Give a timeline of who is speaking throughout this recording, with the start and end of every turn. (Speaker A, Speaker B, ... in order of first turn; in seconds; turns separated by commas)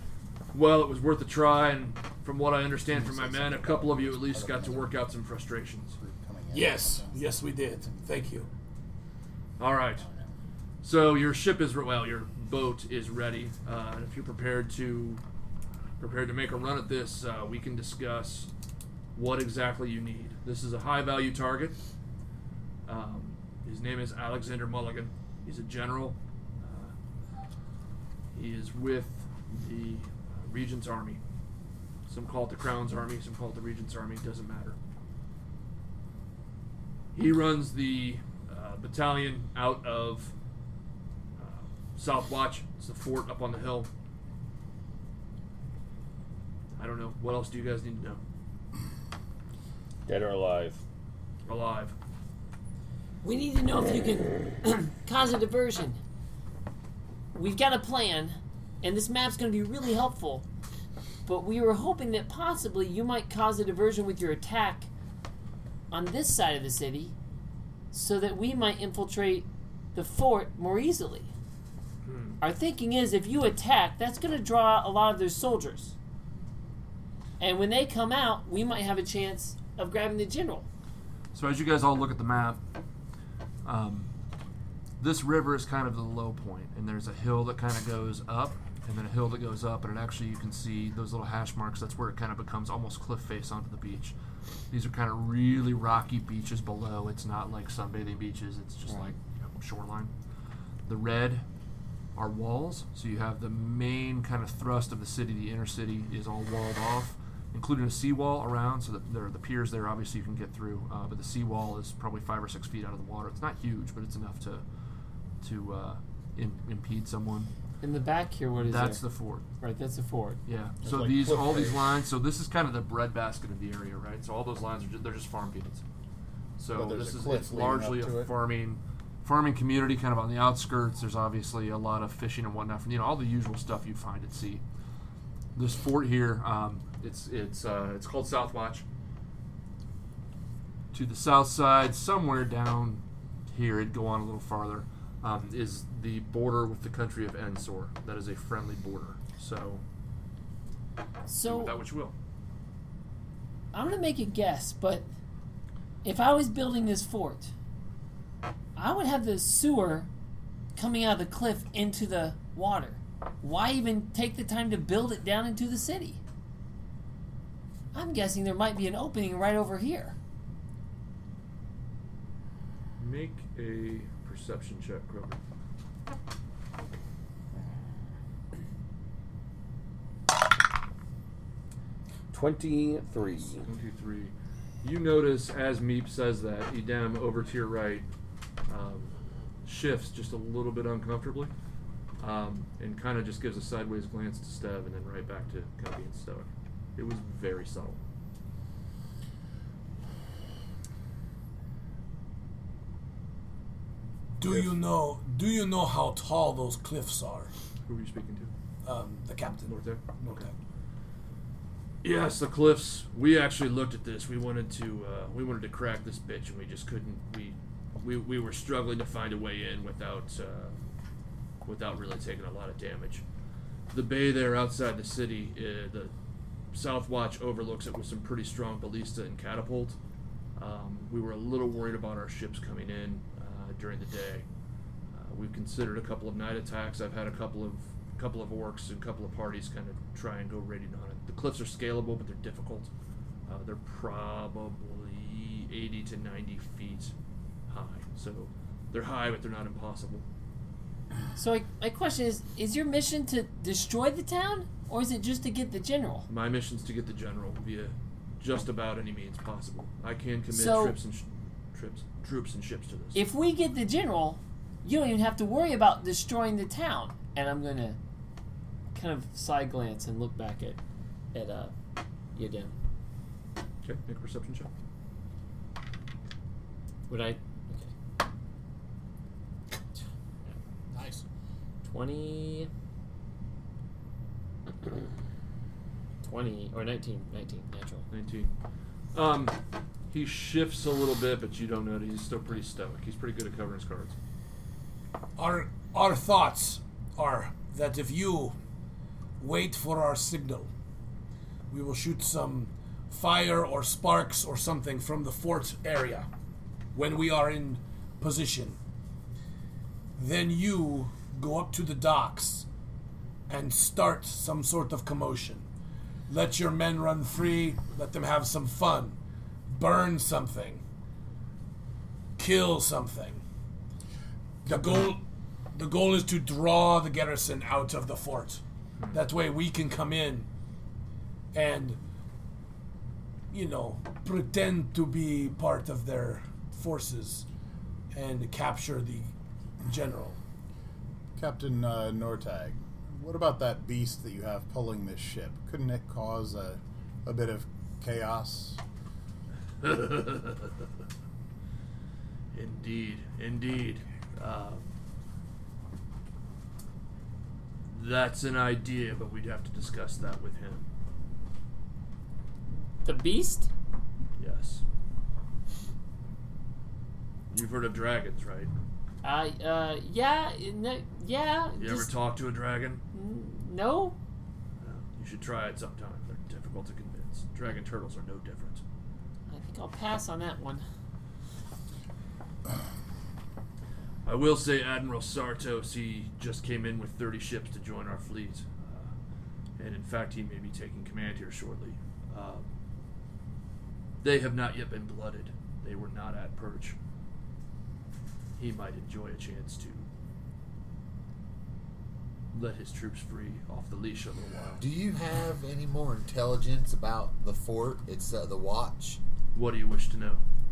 Speaker A: 0.5-6.0, Speaker B: 2.9-5.0, Speaker B: 6.0-8.2, Speaker C: 6.5-8.5, Speaker A: 9.6-10.1, Speaker B: 10.0-10.3, Speaker A: 10.8-15.2, Speaker A: 16.0-18.5, Speaker A: 19.1-21.8, Speaker A: 22.9-26.9, Speaker A: 28.3-31.2, Speaker A: 32.1-34.8, Speaker A: 37.1-40.3, Speaker A: 41.4-43.9, Speaker A: 46.8-48.2, Speaker D: 50.1-50.8, Speaker A: 51.5-52.0, Speaker E: 53.2-56.0, Speaker E: 57.3-60.5, Speaker E: 61.3-64.9, Speaker E: 65.9-67.2, Speaker E: 67.9-71.3, Speaker A: 72.0-72.4, Speaker E: 72.4-76.0, Speaker E: 77.4-80.7, Speaker A: 81.3-82.6, Speaker A: 83.6-84.1, Speaker A: 85.0-94.2, Speaker A: 94.7-100.1, Speaker A: 100.9-101.5, Speaker A: 102.2-114.7, Speaker A: 115.4-117.5, Speaker E: 117.8-119.0, Speaker A: 118.6-119.5, Speaker E: 119.6-120.4, Speaker A: 120.5-125.8, Speaker B: 120.8-121.8, Speaker A: 126.6-134.6, Speaker B: 126.8-128.3, Speaker A: 135.6-138.8, Speaker A: 140.9-149.8, Speaker E: 151.3-151.8, Speaker A: 151.4-152.2, Speaker E: 153.7-155.1, Speaker E: 156.0-157.5, Speaker E: 158.8-160.1, Speaker E: 160.8-166.2, Speaker E: 167.9-170.2, Speaker A: 173.0-175.4, Speaker D: 182.3-183.7, Speaker A: 183.6-188.1, Speaker A: 188.7-189.1, Speaker A: 189.6-191.5, Speaker A: 192.2-198.0, Speaker C: 204.4-207.5, Speaker A: 207.9-208.5, Speaker C: 208.8-210.5, Speaker A: 209.7-210.5, Speaker A: 212.0-220.8, Speaker A: 221.6-223.2, Speaker A: 223.9-226.1, Speaker A: 226.7-230.0, Speaker A: 230.6-234.5, Speaker A: 235.1-242.9, Speaker A: 243.5-247.1, Speaker A: 247.7-250.2, Speaker E: 251.4-256.3, Speaker A: 256.3-263.2, Speaker E: 260.5-261.0, Speaker E: 263.1-268.0, Speaker E: 268.9-270.8, Speaker E: 271.3-271.7, Speaker E: 272.4-272.8, Speaker A: 273.8-274.7, Speaker E: 277.1-277.9, Speaker C: 280.9-281.2, Speaker E: 281.8-282.7, Speaker E: 286.2-288.1, Speaker A: 288.1-288.5, Speaker A: 289.1-289.6, Speaker A: 290.1-294.2, Speaker C: 295.4-298.6, Speaker C: 299.4-300.7, Speaker C: 301.7-306.3, Speaker C: 306.9-308.8, Speaker C: 310.2-312.7, Speaker C: 313.5-315.7, Speaker C: 316.3-319.2, Speaker C: 319.7-320.8, Speaker C: 322.4-323.4, Speaker C: 324.6-325.2, Speaker C: 325.7-330.5, Speaker C: 331.5-332.0, Speaker C: 333.5-337.4, Speaker C: 338.1-339.3, Speaker C: 339.9-340.4, Speaker B: 341.4-348.8, Speaker A: 349.8-350.8, Speaker A: 352.5-354.9, Speaker A: 357.9-360.9, Speaker E: 363.0-363.7, Speaker A: 364.4-364.8, Speaker A: 367.5-368.7, Speaker E: 369.2-372.1, Speaker A: 371.8-373.0, Speaker E: 373.1-374.2, Speaker A: 374.8-378.8, Speaker E: 379.5-380.9, Speaker A: 384.2-389.1, Speaker A: 389.8-392.7, Speaker A: 394.2-397.0, Speaker A: 398.6-400.1, Speaker A: 402.5-404.8, Speaker F: 404.8-409.2, Speaker A: 409.5-410.4